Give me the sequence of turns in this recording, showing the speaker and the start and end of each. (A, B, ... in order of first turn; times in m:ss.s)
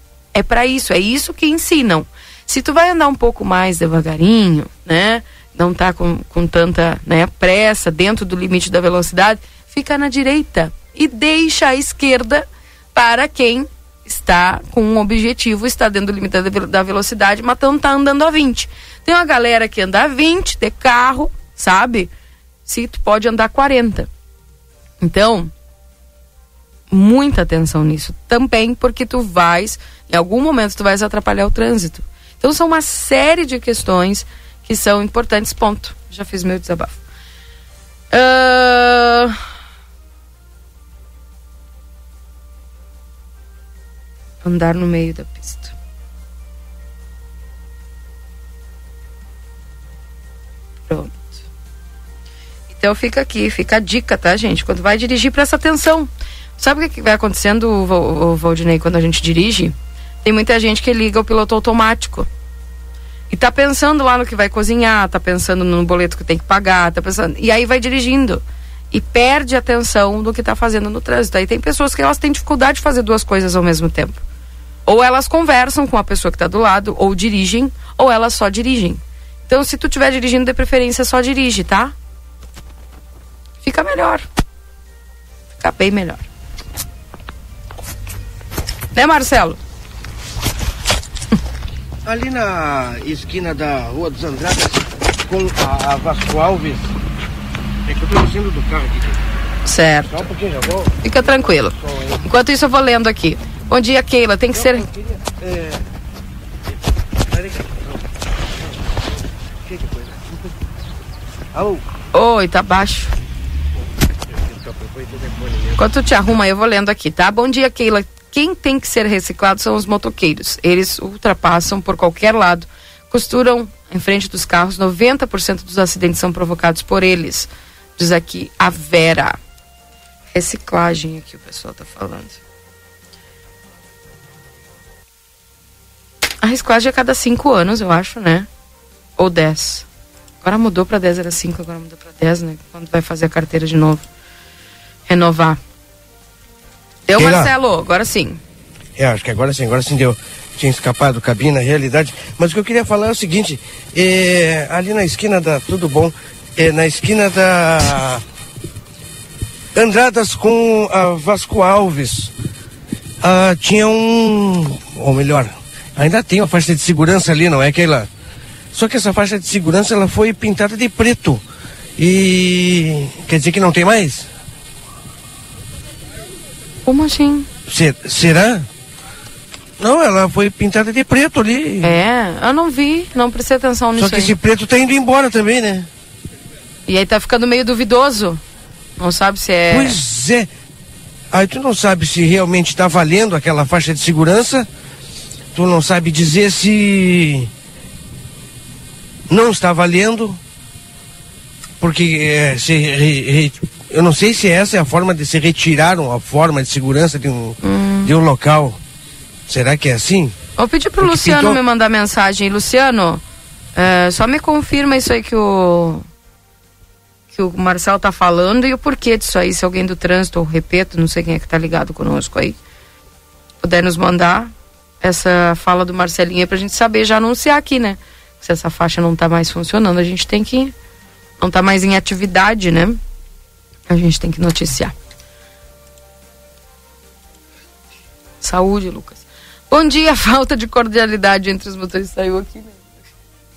0:00.3-0:22.1 A
0:22.6-0:24.1 A
0:25.0-0:25.5 A
0:26.9-0:37.0 A
0:38.1-0:39.4 A
0:44.4-0:45.7 A
0:50.9-0:51.3 A
0:52.7-1:02.3 A
1:03.3-1:14.2 A
1:14.8-1:21.9 A
1:23.6-1:24.2 A
1:25.6-1:26.2 A
1:28.9-1:29.6 A
1:32.0-1:36.9 B
1:37.8-1:39.2 B
1:39.6-1:40.3 A
1:40.1-1:41.0 B
1:41.0-1:44.9 A
1:41.8-1:42.2 B
1:44.5-1:45.8 B
1:47.3-1:48.0 B
1:49.6-1:50.4 B
1:51.5-1:51.8 B
1:52.1-1:53.1 A
1:54.5-1:55.8 B
1:55.8-2:09.4 A
2:10.3-2:12.4 A
2:16.4-2:18.5 A
2:19.2-2:19.8 A
2:20.4-2:24.0 A
2:25.1-2:25.6 A
2:27.1-2:28.4 A
2:27.2-2:27.5 B
2:29.0-2:38.2 B
2:39.7-2:42.3 B
2:43.2-2:48.1 B
2:48.7-2:51.4 B
2:52.0-2:54.3 B
2:56.8-2:57.5 A
2:57.7-2:58.7 B
2:59.8-3:02.0 B
3:01.8-3:04.3 A
3:04.0-3:05.9 B
3:06.9-3:08.4 A
3:09.0-3:10.0 A
3:09.7-3:10.5 B
3:11.3-3:14.7 B
3:15.5-3:17.5 B
3:19.3-3:20.4 B
3:21.8-3:28.8 B
3:27.6-3:28.1 A
3:29.5-3:30.4 B
3:30.6-3:33.2 A
3:31.0-3:31.6 B
3:33.7-3:36.0 A
3:37.3-3:42.6 A
3:43.6-3:50.7 A
3:51.4-3:53.0 A
3:53.9-3:54.9 A
3:58.4-4:02.8 A